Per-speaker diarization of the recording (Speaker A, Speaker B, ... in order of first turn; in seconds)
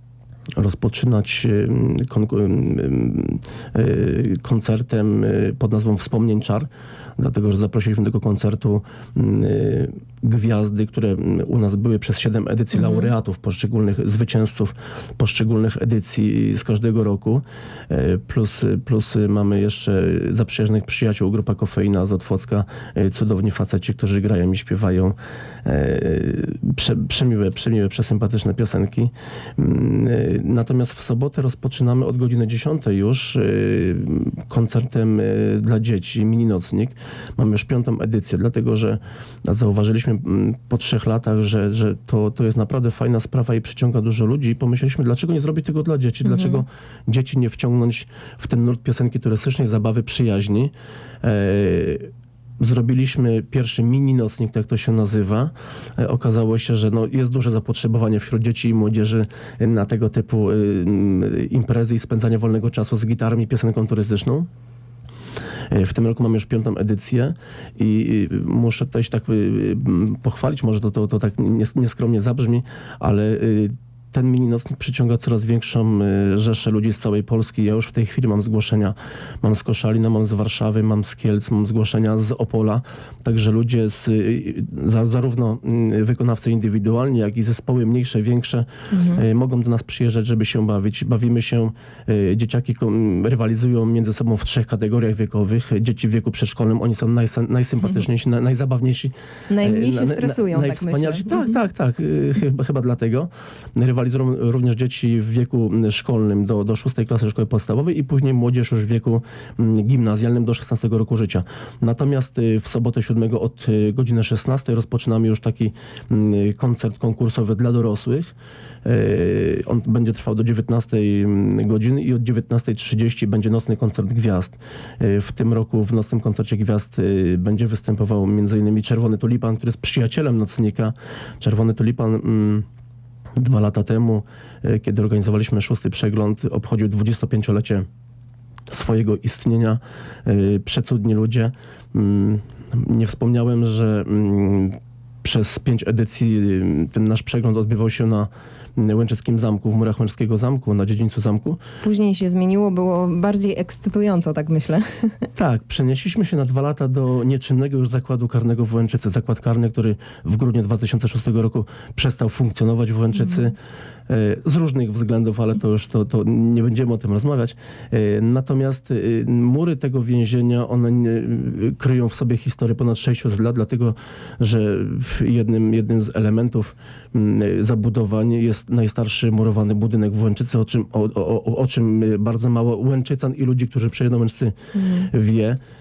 Speaker A: 0.6-64.5, 65.7-132.7, 133.4-137.9, 138.7-151.6, 155.4-163.6, 164.1-184.6, 185.1-185.6
Speaker B: 12.7-13.1, 46.2-46.6, 88.9-89.2, 99.5-101.5, 151.8-155.3, 184.8-185.1